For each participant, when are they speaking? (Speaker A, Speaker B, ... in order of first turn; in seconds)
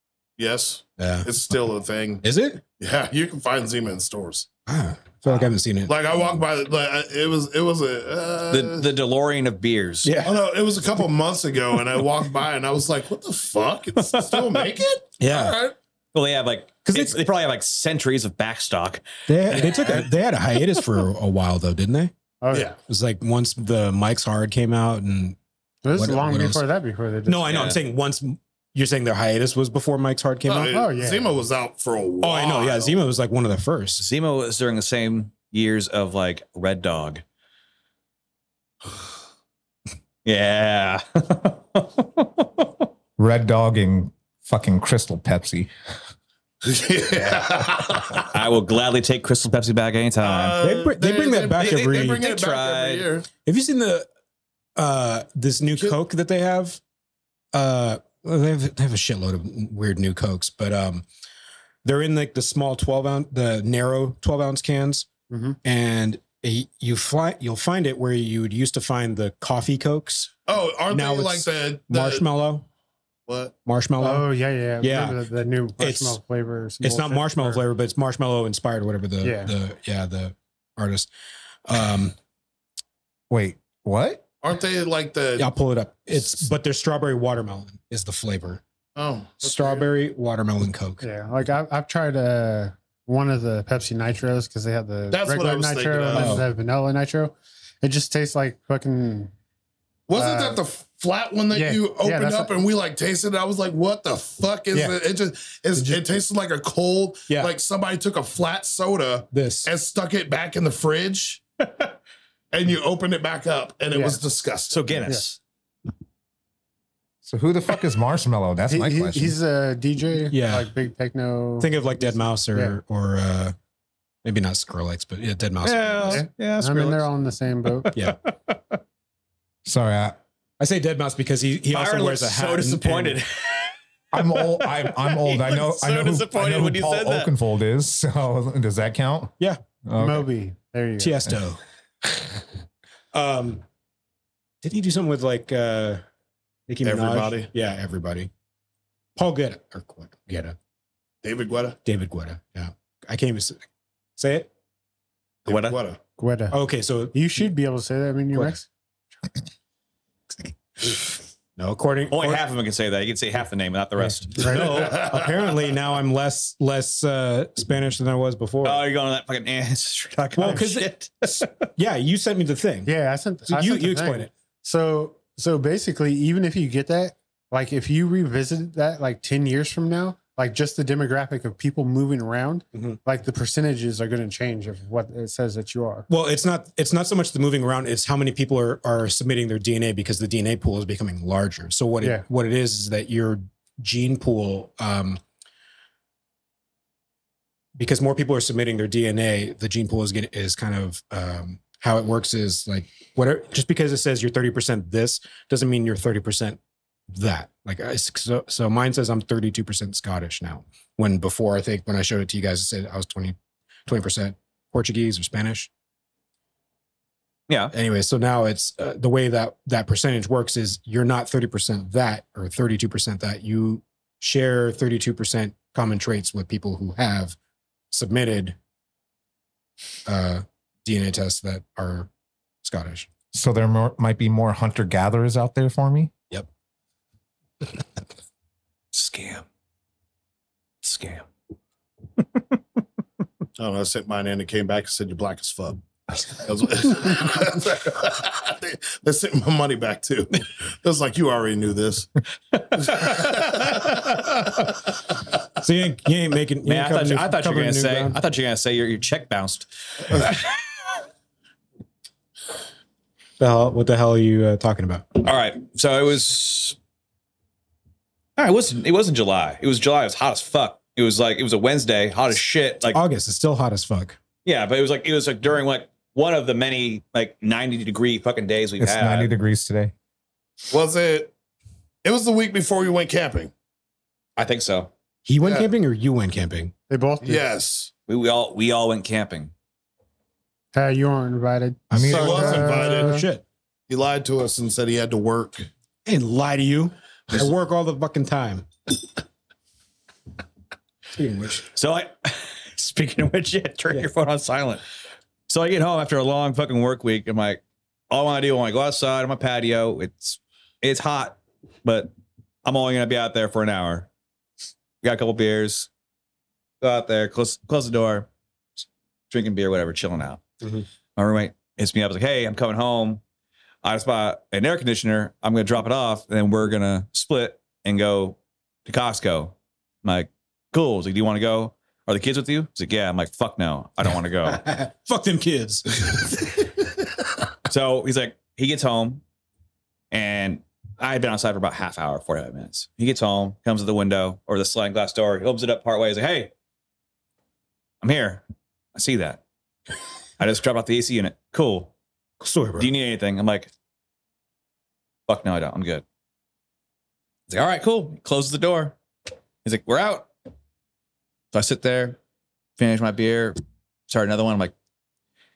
Speaker A: 0.4-2.2, 2.8-4.5, 5.9-8.9, 10.2-15.7, 30.4-33.0, 46.6-48.3, 50.2-53.3, 70.5-72.3, 73.3-73.5, 84.4-85.5, 89.0-89.9, 95.1-96.4, 100.1-111.4, 112.5-115.0, 146.8-147.5, 151.2-151.8, 155.4-156.0, 164.9-165.2, 243.6-252.1, 252.9-253.9, 280.7-281.3, 282.0-283.5, 285.4-285.7, 287.2-287.9, 292.1-293.2, 293.9-295.7
Speaker B: 1.0-1.5, 2.2-2.6, 4.7-5.9, 10.0-10.4, 15.2-15.6, 16.9-17.2, 19.3-22.1, 22.9-25.4, 25.9-26.6, 27.2-30.8, 32.2-34.0, 50.6-52.2, 53.4-54.1, 54.8-56.8, 57.5-61.0, 61.8-65.1, 65.6-72.6, 73.6-74.3, 74.8-75.2, 75.8-76.2, 76.8-81.1, 81.7-82.1, 85.4-88.6, 89.4-91.0, 96.1-96.5, 105.8-106.0, 107.3-107.5, 109.3-109.7, 120.3-120.7, 121.6-123.5, 124.2-126.2, 127.9-128.2, 130.6-133.2, 141.0-141.6, 143.1-143.6, 144.6-146.0, 146.7-148.3, 149.2-150.6, 151.8-153.6, 154.2-154.5, 156.5-157.1, 161.6-162.4, 164.0-168.8, 170.3-170.9, 171.8-172.9, 173.5-174.3, 186.1-195.2, 197.8-206.6, 207.1-215.7, 217.7-227.3, 227.9-228.6, 230.1-232.1, 232.6-233.1, 255.6-258.2, 263.4-265.1, 272.9-274.2, 285.2-286.7, 291.9-293.4, 296.1-298.7, 301.1-301.6, 334.5-336.6, 352.4-352.9
Speaker C: 8.5-10.1, 16.1-20.1, 27.5-27.8, 34.0-37.2, 40.2-42.7, 48.3-50.6, 51.5-53.1, 114.7-115.4, 125.6-127.1, 131.7-133.7, 134.3-137.3, 155.4-155.8, 162.1-164.7, 168.6-171.5, 238.9-239.4, 240.8-241.3, 252.7-254.2, 256.6-260.4, 265.2-266.8, 268.4-273.0, 274.4-279.3, 284.4-284.9, 288.1-289.5, 301.7-304.8, 305.5-312.1, 312.6-314.1, 315.0-315.9, 316.8-318.3, 319.3-320.4, 321.1-323.2, 323.8-334.6, 337.7-339.2, 340.1-346.5, 348.0-348.4, 348.9-349.4, 350.4-351.9, 352.8-353.7, 355.3-356.0, 357.5-358.9, 359.6-360.3, 361.5-362.2, 362.8-363.6, 364.1-364.7
Speaker D: 22.4-22.7, 25.8-27.7, 30.7-31.4, 65.3-65.6, 74.0-77.6, 79.2-79.5, 91.0-99.3, 100.1-100.6, 101.5-102.5, 118.7-122.8, 126.1-127.9, 139.9-141.3, 156.2-156.6, 157.1-158.6, 164.4-164.8, 172.8-186.1, 286.9-287.4, 290.7-293.2
Speaker E: 43.2-45.7, 83.3-84.2, 117.2-119.3, 129.6-130.2, 134.1-140.3, 233.3-236.1, 278.8-279.9, 291.9-292.3